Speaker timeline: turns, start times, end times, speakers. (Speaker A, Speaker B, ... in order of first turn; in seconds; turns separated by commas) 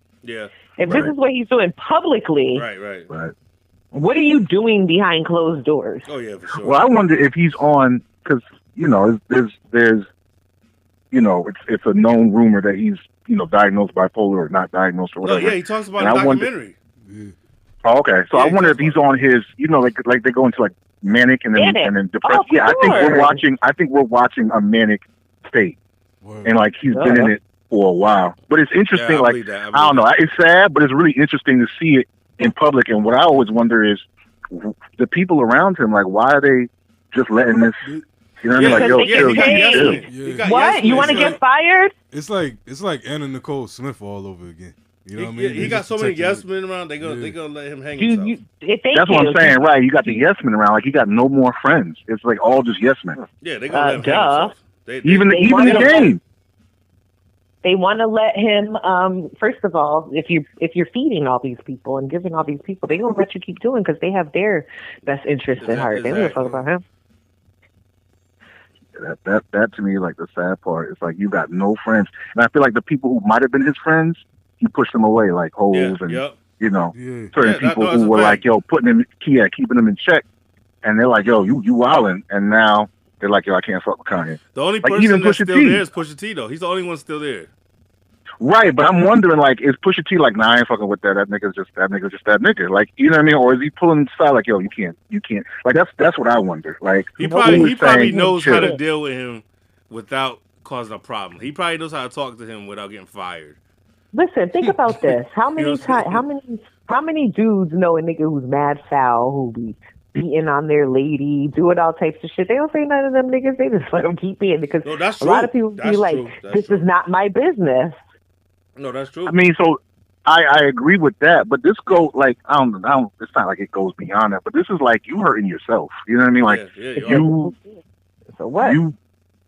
Speaker A: 0.2-0.5, Speaker B: 0.8-2.6, Speaker C: 0.8-1.1, Speaker A: 2.5-3.1, Speaker B: 3.9-6.1, Speaker A: 6.0-6.8, Speaker C: 6.6-10.1, Speaker C: 11.1-16.5, Speaker A: 15.2-16.8, Speaker D: 17.0-17.3, Speaker C: 17.8-25.8, Speaker A: 18.3-19.1, Speaker B: 21.6-23.4, Speaker A: 22.8-23.1, Speaker D: 26.2-26.6, Speaker C: 26.4-37.8, Speaker B: 26.9-27.3, Speaker A: 28.9-30.1, Speaker C: 38.4-40.0, Speaker A: 38.5-41.4, Speaker B: 38.6-41.9, Speaker D: 40.0-41.1, Speaker D: 42.1-46.4, Speaker A: 45.1-48.4, Speaker D: 47.0-47.4, Speaker B: 48.0-50.1, Speaker C: 48.9-53.2, Speaker A: 53.4-56.2, Speaker B: 53.7-54.5, Speaker C: 55.0-56.2, Speaker B: 55.2-56.1, Speaker B: 57.6-66.8, Speaker A: 65.6-66.6, Speaker C: 69.0-80.2, Speaker A: 75.7-76.4, Speaker D: 76.9-77.3, Speaker A: 77.4-78.4, Speaker C: 80.8-85.8, Speaker A: 84.5-87.5, Speaker C: 88.4-98.7, Speaker A: 97.2-103.6, Speaker B: 97.2-98.8, Speaker B: 104.1-118.0, Speaker A: 105.5-106.2, Speaker A: 114.8-116.8, Speaker A: 118.8-119.4, Speaker C: 119.2-127.5, Speaker A: 126.4-127.3, Speaker B: 128.3-128.8, Speaker C: 128.6-128.9